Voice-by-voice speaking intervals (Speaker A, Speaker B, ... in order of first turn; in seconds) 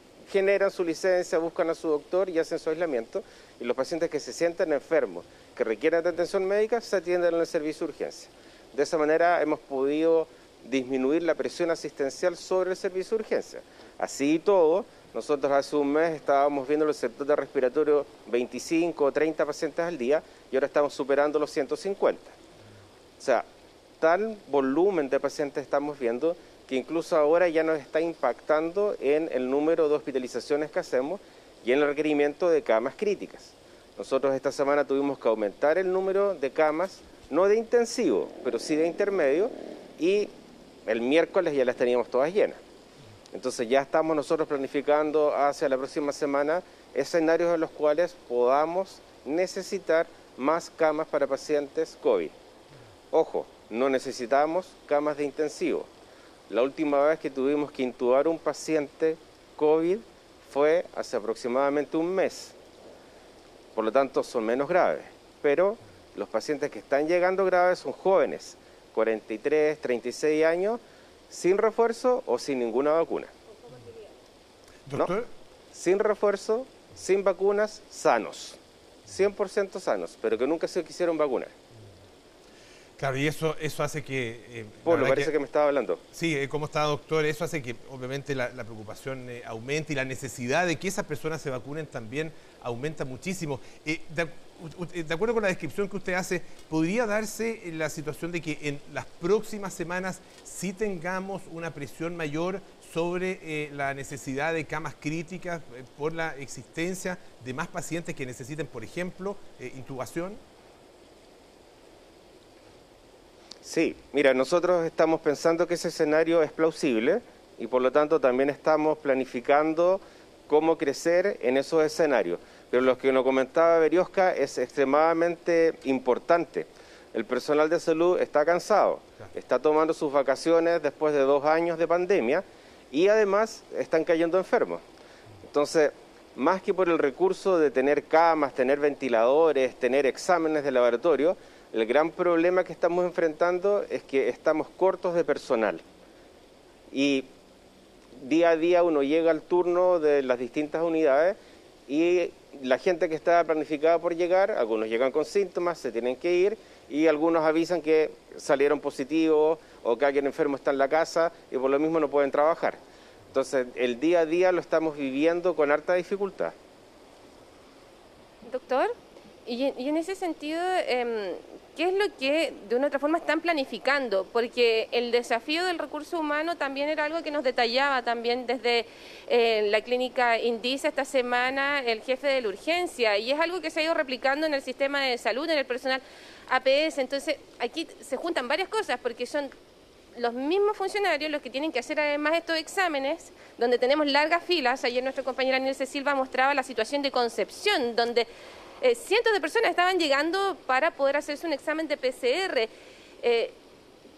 Speaker A: 0.2-22.3, 23.2-23.4, 24.0-40.3, 40.9-42.6, 43.3-52.3, 53.1-55.9, 56.5-62.5, 63.7-73.3, 75.7-81.5, 84.8-86.0, 113.6-134.8, 135.4-145.8, 146.9-147.3, 148.2-162.8, 163.3-166.5
Speaker B: 73.7-73.9, 168.4-168.9, 169.4-189.5, 190.1-198.3, 198.8-203.6
Speaker C: 74.8-75.3, 83.0-85.3, 86.1-110.4